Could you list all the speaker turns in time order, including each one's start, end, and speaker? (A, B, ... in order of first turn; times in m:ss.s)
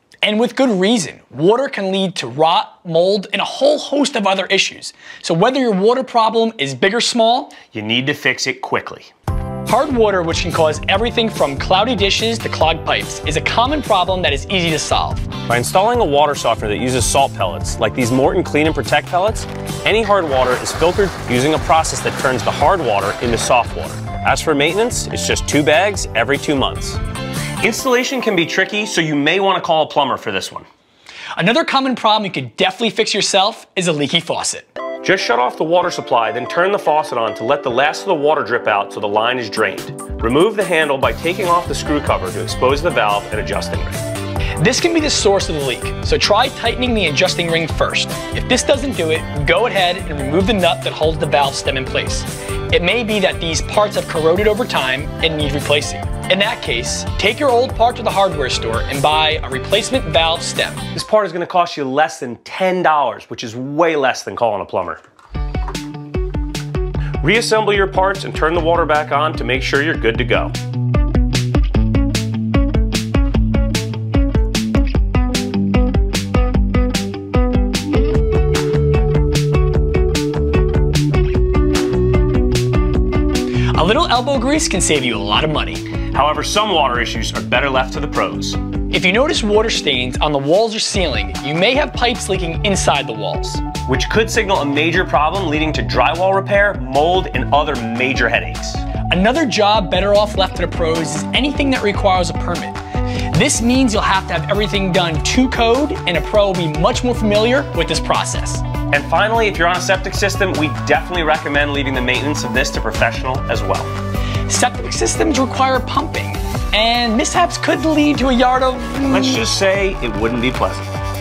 0:00.2-0:07.6 A
0:07.7-0:09.1 B
0:09.7-0:15.3 A
0:15.5-0:27.0 B
0:27.6-0:30.7 B
0:31.4-0:34.7 A
0:35.0-0:44.0 B
0:44.6-1:00.8 A
1:00.9-1:05.0 B
1:07.2-1:10.5 B
1:23.7-1:25.8 A
1:26.1-1:28.6 B
1:28.9-1:33.7 A
1:33.9-1:38.8 B
1:39.1-1:42.8 A
1:43.3-1:48.6 A
1:48.9-1:53.9 B
1:54.5-1:59.4 A
1:59.1-2:00.9 B